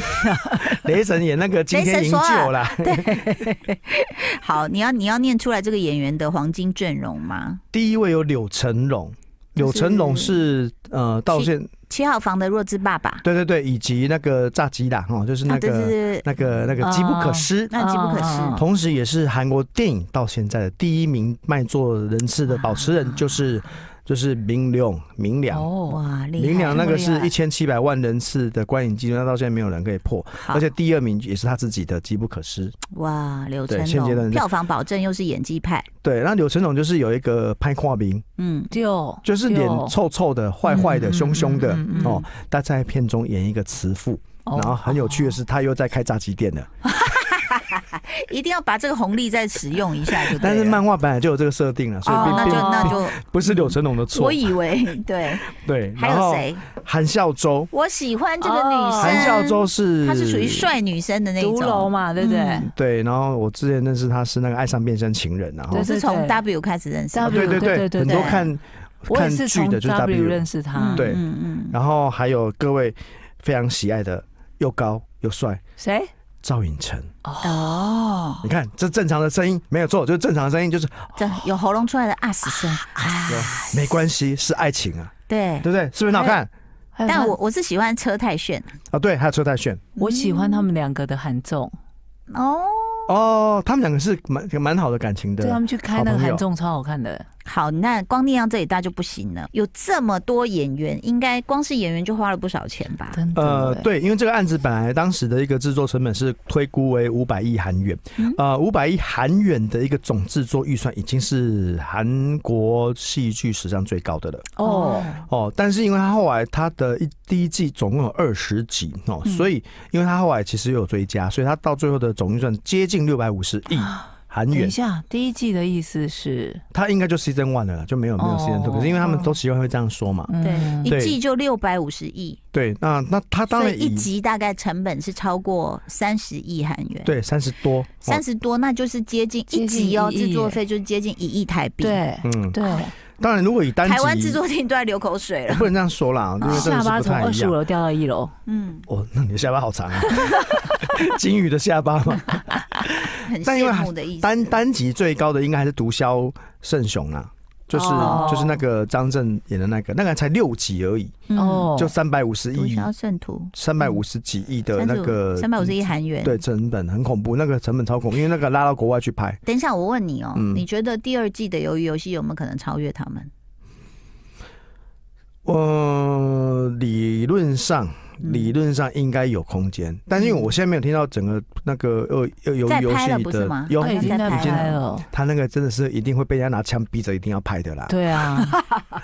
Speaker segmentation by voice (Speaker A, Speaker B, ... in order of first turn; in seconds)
Speaker A: 0.4-3.4, 7.7-11.7, 13.2-17.7, 18.5-25.7, 26.4-32.8, 33.7-34.5, 36.0-38.2, 39.2-46.7, 50.3-54.5, 55.4-57.7, 59.0-60.7, 62.6-65.9, 67.2-75.6, 76.4-77.1, 78.4-81.3, 83.3-85.1, 85.6-86.5, 88.9-89.8, 93.1-96.4, 103.3-114.5, 115.2-124.7, 126.7-130.3, 130.8-131.2, 132.5-134.1, 137.0-138.2, 142.2-142.6, 143.1-144.4, 145.5-147.6, 148.9-162.9, 163.5-169.4, 170.3-170.6, 175.4-188.0
Speaker B: 1.7-7.6, 9.6-10.4, 11.3-13.2, 15.5-16.2, 17.7-18.6, 22.5-23.3, 25.9-27.1, 30.4-30.6, 32.9-35.9, 38.4-38.7, 41.9-42.2, 46.8-50.8, 52.0-56.6, 57.7-62.6, 65.7-68.4, 70.8-71.8, 77.4-78.5, 81.2-83.7, 85.3-85.7, 87.1-88.7, 90.0-90.7, 92.3-93.1, 97.5-103.2, 114.6-115.2, 130.4-132.4, 133.5-137.1, 138.0-142.0, 143.8-145.7, 148.5-148.9, 153.2-154.5, 157.9-158.4, 161.3-161.7, 162.5-164.0, 164.7-166.4, 169.4-173.3, 178.2-178.5, 180.2-180.5, 182.7-184.8, 188.5-188.8
Speaker C: 16.8-18.7, 25.5-26.0, 26.7-27.3, 38.7-39.9, 40.6-42.2, 44.5-45.3, 52.1-53.0, 58.4-59.4, 61.4-62.7, 65.7-66.4, 67.1-68.5, 69.1-71.2, 75.8-76.1, 77.2-78.0, 82.7-83.8, 86.1-86.4, 86.9-87.3, 90.0-91.7, 95.4-97.2, 103.1-103.9, 114.6-115.1, 123.7-126.6, 128.2-129.3, 130.3-131.0, 139.5-140.6, 141.8-142.9, 146.4-148.3, 157.7-158.6, 161.3-161.9, 183.8-185.1, 187.9-188.5